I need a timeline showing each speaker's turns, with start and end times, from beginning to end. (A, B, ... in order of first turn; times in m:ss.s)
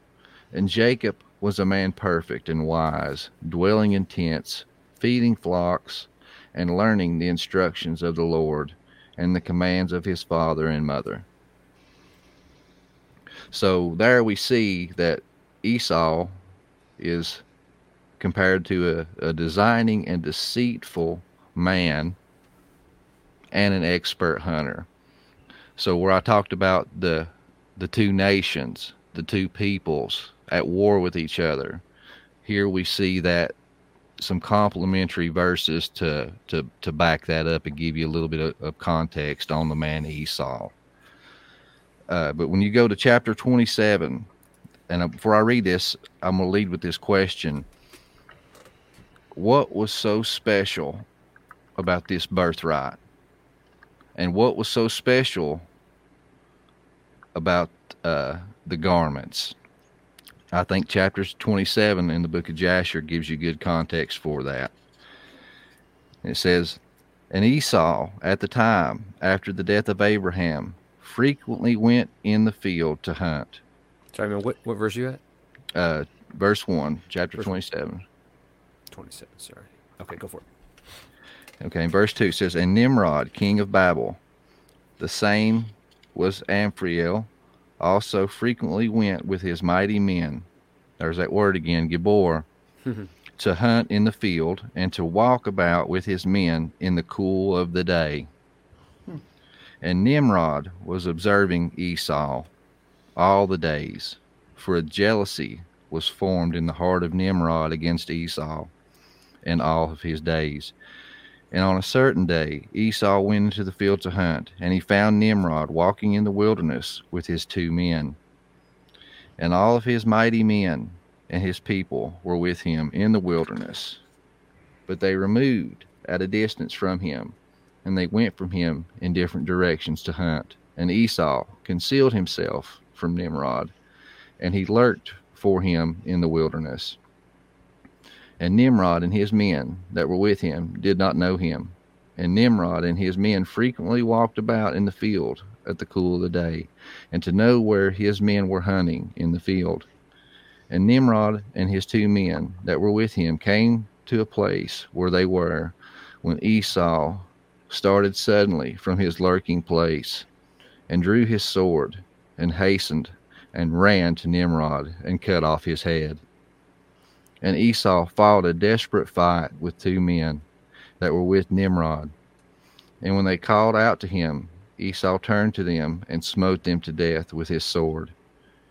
0:00.5-0:11.3 A
0:13.5-0:16.4 A
0:17.0-0:17.4 A
0:18.2-0:22.2 A
0:23.5-0:24.9 A
0:25.8-0:31.8 A
0:32.4-0:33.6 A
0:34.2-0:40.7 A
0:42.1-0:44.3 A
0:44.9-0:47.7 A
0:49.3-0:51.1 A
0:51.8-0:53.0 A
0:54.2-0:55.7 A
0:57.4-0:59.6 A
1:00.5-1:04.7 A
1:06.2-1:13.6 A
1:14.1-1:15.2 B
1:15.8-1:18.0 A
1:18.9-1:20.5 B
1:21.6-1:24.2 A
1:25.0-1:30.5 A
1:31.0-1:32.5 A
1:32.8-1:33.1 B
1:33.4-1:38.3 A
1:39.8-1:42.5 A
1:43.2-1:48.7 A
1:49.4-1:50.7 A
1:51.5-1:58.2 A
1:59.4-2:04.0 A
2:04.9-2:13.7 A
2:14.4-2:17.0 A
2:18.4-2:29.9 A
2:30.7-2:40.3 A
2:40.9-2:46.2 A
2:47.4-2:50.4 A
2:51.0-2:52.1 A
2:53.0-2:58.1 A